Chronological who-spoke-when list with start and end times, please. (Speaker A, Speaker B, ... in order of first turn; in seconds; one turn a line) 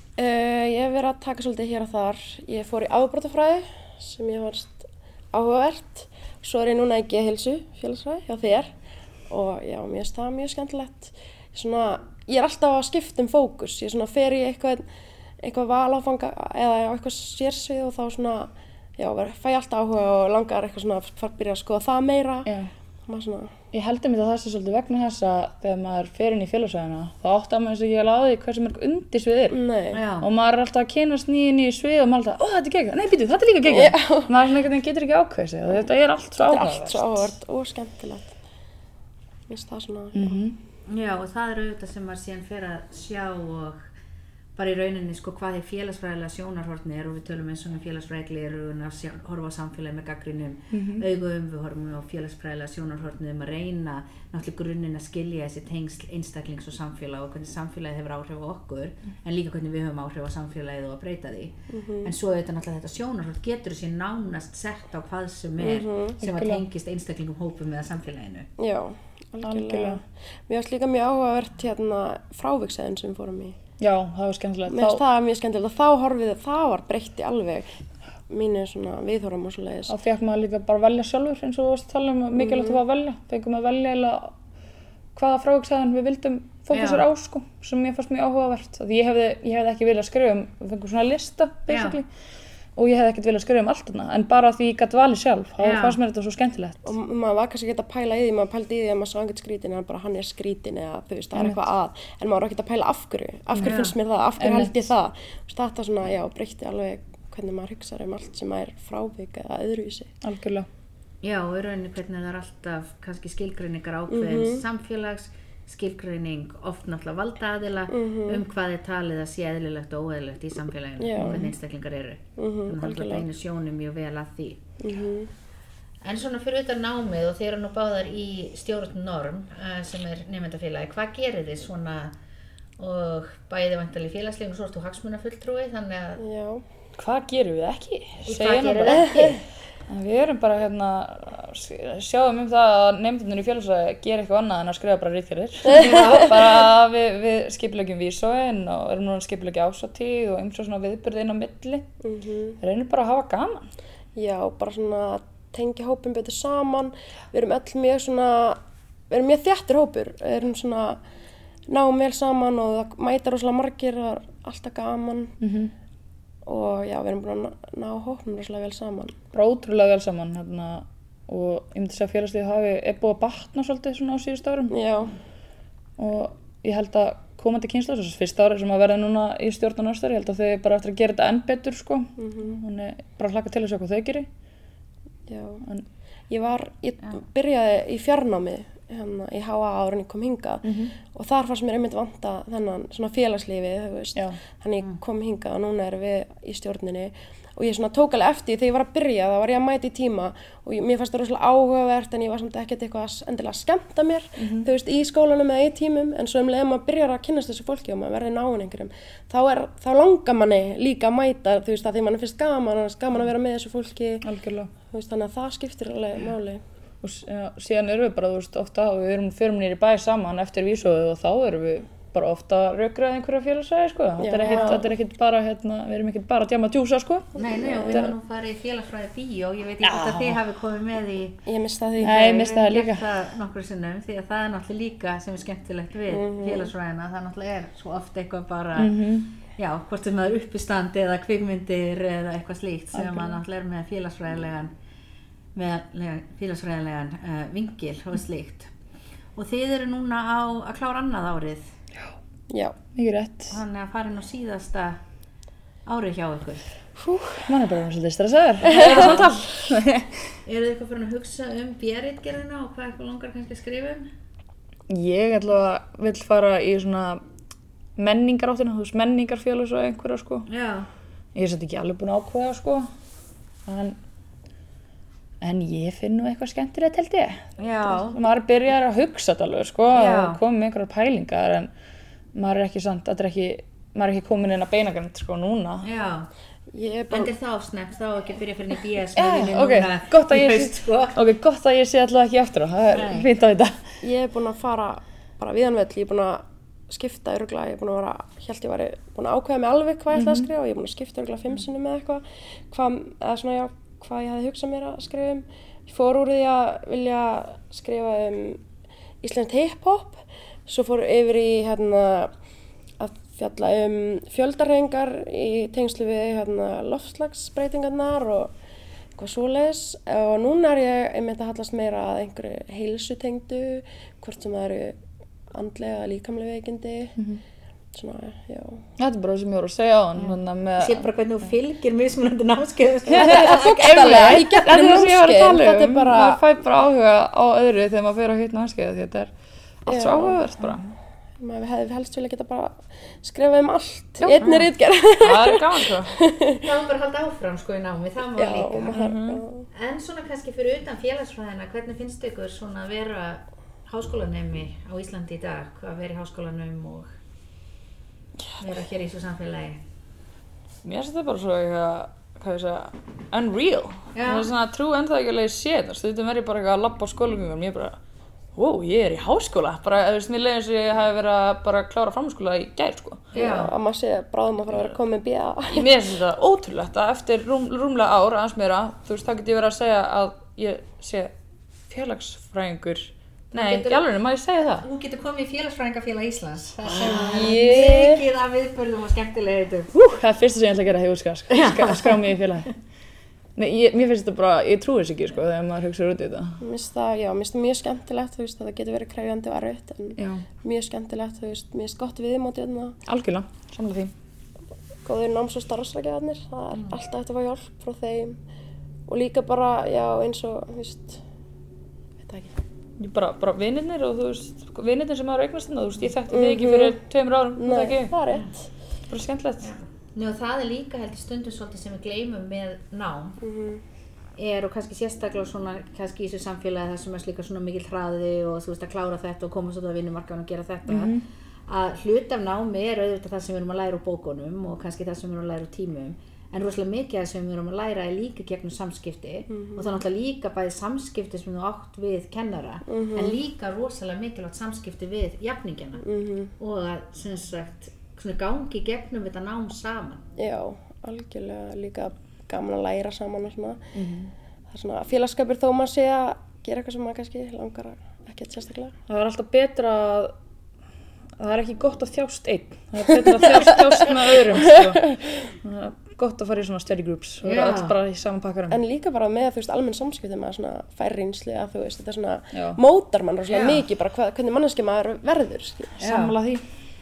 Speaker A: 0.2-8.7
Speaker A: 9.3-14.8
Speaker A: 15.4-22.5
Speaker B: 22.4-22.7
Speaker A: 23.1-23.5
Speaker B: 23.7-29.6
Speaker A: 29.5-30.0
Speaker C: 29.9-30.3
Speaker B: 30.2-37.3
Speaker A: 33.7-34.4
Speaker A: 36.4-38.3
Speaker A: 39.5-40.4
Speaker B: 40.1-40.5
Speaker C: 40.9-43.9
Speaker C: 44.5-68.5
Speaker B: 50.7-51.0
Speaker A: 61.7-62.1
Speaker A: 65.6-66.2
Speaker B: 66.2-66.6
Speaker A: 68.6-73.6
Speaker B: 69.4-70.0
Speaker B: 73.8-75.0
Speaker A: 74.7-77.7
Speaker A: 78.3-79.9
Speaker B: 79.9-84.3
Speaker A: 82.4-82.8
Speaker B: 85.1-92.1
Speaker C: 86.7-87.0
Speaker C: 91.7-92.0
Speaker B: 92.7-96.9
Speaker C: 95.6-96.0
Speaker A: 96.8-110.1
Speaker B: 101.3-101.6
Speaker C: 103.6-104.0
Speaker B: 104.4-104.9
Speaker B: 110.2-110.7
Speaker C: 111.2-124.6
Speaker A: 114.1-114.6
Speaker A: 117.9-118.4
Speaker A: 121.0-121.5
Speaker A: 122.4-123.2
Speaker A: 124.8-125.3
Speaker C: 126.0-132.1
Speaker C: 132.8-136.2
Speaker A: 136.2-136.6
Speaker B: 136.9-139.3
Speaker C: 138.2-139.4
Speaker B: 139.9-151.9
Speaker A: 145.7-146.2
Speaker C: 145.7-146.3
Speaker A: 152.0-152.6
Speaker B: 152.6-153.7
Speaker A: 154.2-161.0
Speaker A: 161.7-165.3
Speaker B: 165.4-165.7
Speaker A: 166.4-169.1
Speaker B: 169.3-174.8
Speaker A: 174.7-175.1
Speaker B: 176.0-184.3
Speaker A: 182.2-182.5
Speaker A: 185.3-185.6
Speaker A: 186.3-214.2
Speaker B: 190.6-190.9
Speaker B: 204.4-204.7
Speaker B: 214.2-214.7
Speaker A: 214.9-216.6
Speaker B: 217.0-228.1
Speaker A: 224.2-224.9
Speaker C: 224.5-224.8
Speaker C: 227.3-231.4
Speaker A: 227.4-228.1
Speaker B: 229.8-230.4
Speaker A: 231.5-232.5
Speaker B: 232.0-233.1
Speaker C: 232.3-244.7
Speaker A: 236.1-236.7
Speaker B: 238.8-239.3
Speaker B: 242.9-243.4
Speaker C: 245.5-248.7
Speaker C: 249.3-251.7
Speaker A: 252.5-252.8
Speaker B: 252.9-253.6
Speaker C: 253.5-255.0
Speaker C: 255.8-256.7
Speaker A: 257.0-257.4
Speaker B: 257.4-260.1
Speaker C: 258.6-259.3
Speaker A: 258.7-259.0
Speaker C: 260.4-264.1
Speaker B: 264.9-267.2
Speaker B: 268.0-270.5
Speaker C: 270.5-270.9
Speaker B: 271.3-272.9
Speaker B: 273.6-274.0
Speaker B: 275.4-281.7
Speaker C: 277.6-278.2
Speaker C: 279.9-280.4
Speaker B: 282.3-285.9
Speaker C: 285.8-286.3
Speaker A: 286.7-287.3
Speaker C: 287.1-291.2
Speaker B: 289.1-293.8
Speaker C: 292.9-293.3
Speaker A: 294.0-308.6
Speaker B: 300.1-300.5
Speaker A: 309.2-312.3
Speaker A: 313.0-318.5
Speaker A: 319.2-325.0
Speaker A: 325.5-327.1
Speaker A: 327.9-328.8
Speaker B: 329.0-331.1
Speaker C: 330.1-334.1
Speaker B: 333.1-339.3
Speaker A: 333.1-336.4
Speaker A: 339.9-340.7
Speaker B: 339.9-340.9
Speaker A: 341.4-346.6
Speaker B: 344.2-346.1
Speaker C: 346.6-349.0
Speaker A: 348.4-349.7
Speaker B: 348.9-349.4
Speaker C: 349.7-357.1
Speaker C: 358.6-359.8
Speaker B: 360.8-368.0
Speaker C: 364.1-364.5
Speaker B: 368.5-373.3
Speaker C: 373.3-373.7
Speaker A: 373.3-375.9
Speaker B: 375.7-381.3
Speaker B: 381.9-384.9
Speaker C: 383.5-384.0
Speaker C: 384.8-389.9
Speaker B: 387.0-388.2
Speaker B: 389.9-392.7
Speaker C: 391.5-392.2
Speaker B: 393.6-396.6
Speaker A: 396.6-403.0
Speaker B: 400.2-400.4
Speaker B: 403.1-404.1
Speaker A: 405.0-408.4
Speaker A: 409.1-411.2
Speaker A: 412.2-412.5
Speaker B: 413.0-418.1
Speaker A: 416.3-416.9
Speaker A: 417.6-418.7
Speaker B: 419.1-419.7
Speaker C: 419.6-423.4
Speaker A: 423.4-423.8
Speaker C: 424.4-431.1
Speaker B: 430.9-431.2
Speaker C: 431.7-446.0
Speaker A: 439.5-439.9
Speaker A: 442.9-443.4
Speaker A: 446.0-446.5
Speaker C: 446.6-450.2
Speaker A: 450.4-453.9
Speaker B: 453.9-454.3
Speaker A: 454.7-458.9
Speaker B: 459.1-460.3
Speaker B: 461.4-468.8
Speaker C: 467.4-467.9
Speaker A: 468.7-476.0
Speaker B: 472.5-472.8
Speaker C: 473.5-473.8
Speaker B: 476.0-476.6
Speaker C: 476.0-476.3